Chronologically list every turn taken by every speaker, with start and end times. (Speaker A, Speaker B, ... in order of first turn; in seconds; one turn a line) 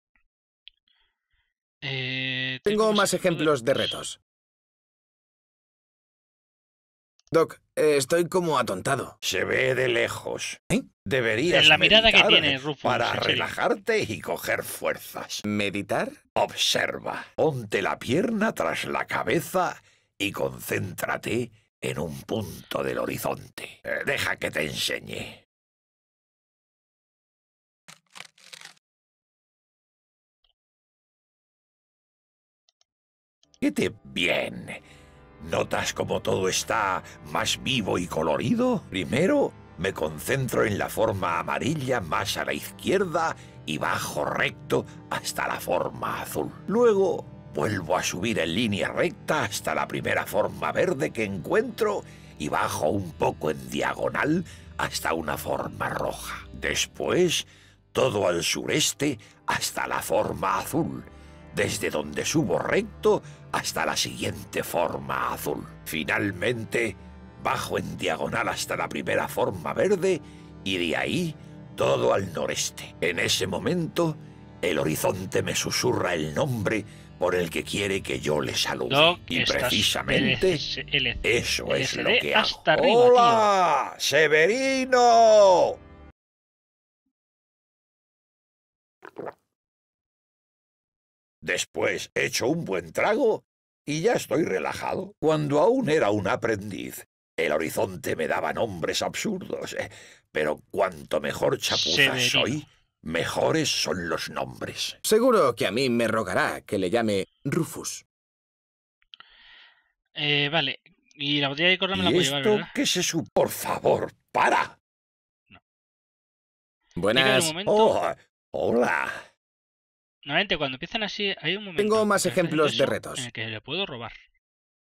Speaker A: 1.8-4.0
Speaker B: 2.7-4.2
Speaker B: 7.3-9.2
Speaker C: 9.2-15.4
Speaker A: 11.5-13.5
Speaker B: 15.4-16.2
Speaker C: 16.4-25.4
Speaker C: 33.6-34.8
Speaker C: 35.4-80.6
Speaker A: 78.9-83.5
Speaker C: 81.2-85.8
Speaker C: 91.4-105.0
Speaker A: 101.7-102.6
Speaker B: 105.0-108.0
Speaker A: 110.2-112.7
Speaker C: 111.9-114.8
Speaker B: 117.0-117.5
Speaker A: 117.1-118.0
Speaker C: 117.7-119.2
Speaker A: 120.3-124.2
Speaker B: 121.8-123.3